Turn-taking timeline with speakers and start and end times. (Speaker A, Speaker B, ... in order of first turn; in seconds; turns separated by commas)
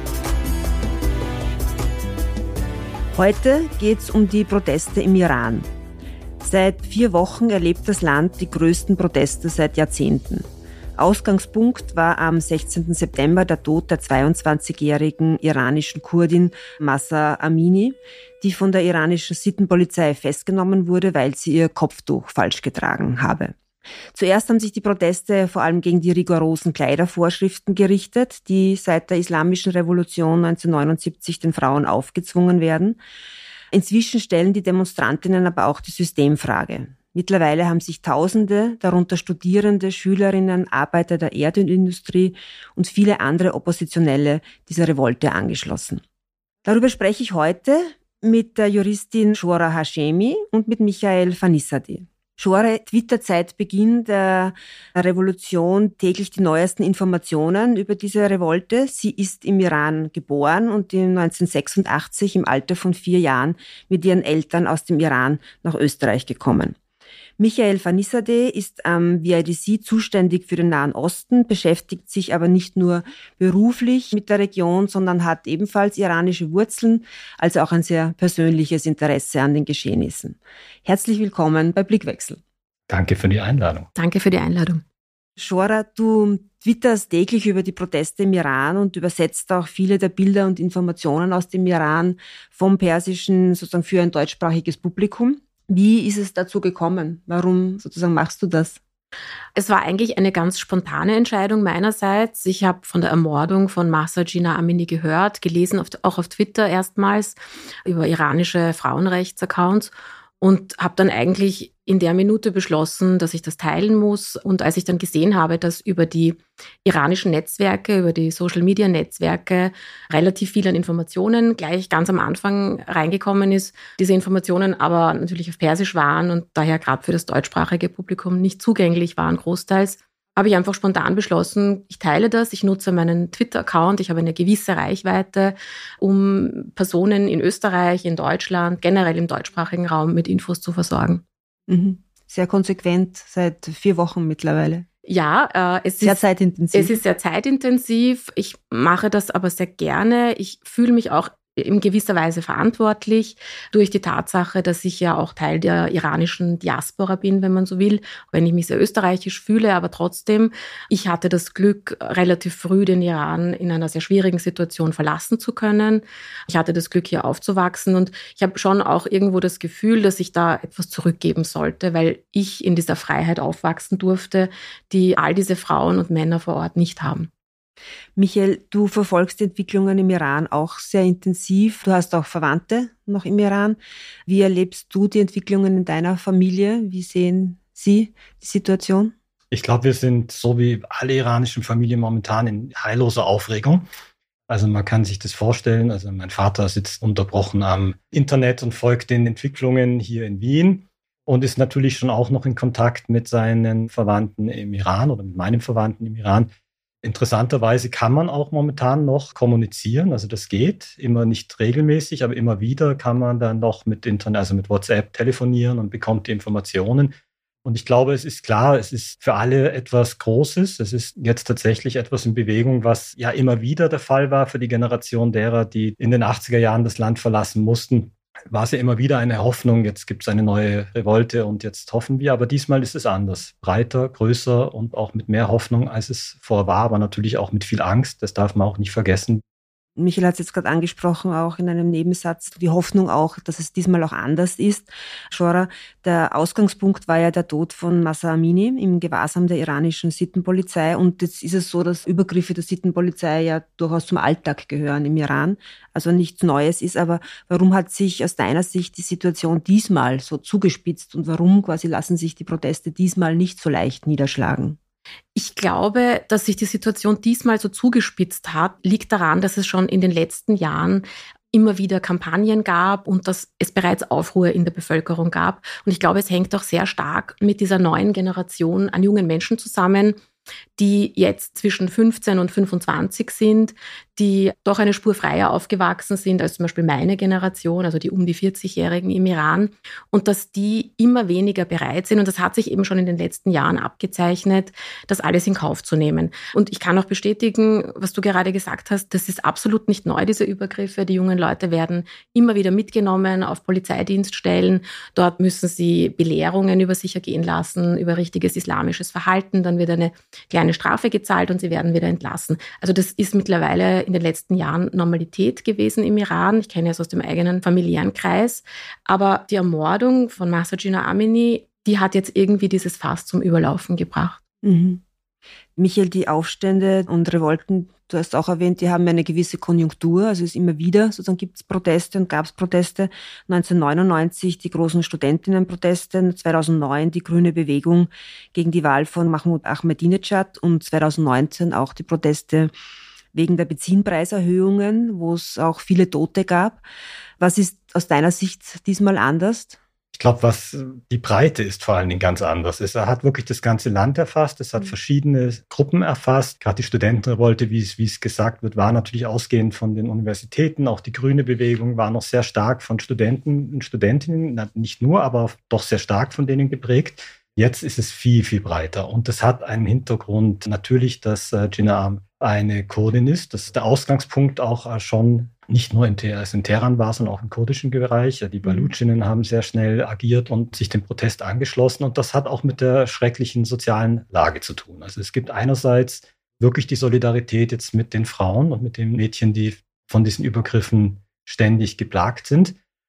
Speaker A: 3.1-5.7, Speaker A: 6.4-23.5, Speaker A: 24.1-33.0, Speaker A: 33.7-46.0, Speaker A: 46.6-66.8, Speaker A: 67.4-82.4, Speaker B: 82.9-83.9, Speaker C: 83.9-84.8, Speaker A: 85.4-98.8, Speaker C: 99.5-141.2, Speaker A: 141.7-144.8, Speaker C: 145.1-146.2, Speaker A: 146.0-147.0, Speaker C: 146.7-177.3, Speaker A: 178.2-189.1, Speaker B: 189.5-193.8, Speaker B: 194.5-206.5, Speaker B: 207.0-239.4, Speaker A: 240.0-264.8, Speaker C: 265.3-280.2, Speaker C: 280.8-324.4, Speaker A: 324.6-325.0, Speaker A: 325.8-342.7, Speaker A: 343.3-346.8, Speaker A: 347.4-349.8, Speaker B: 350.1-392.8, Speaker A: 378.6-378.9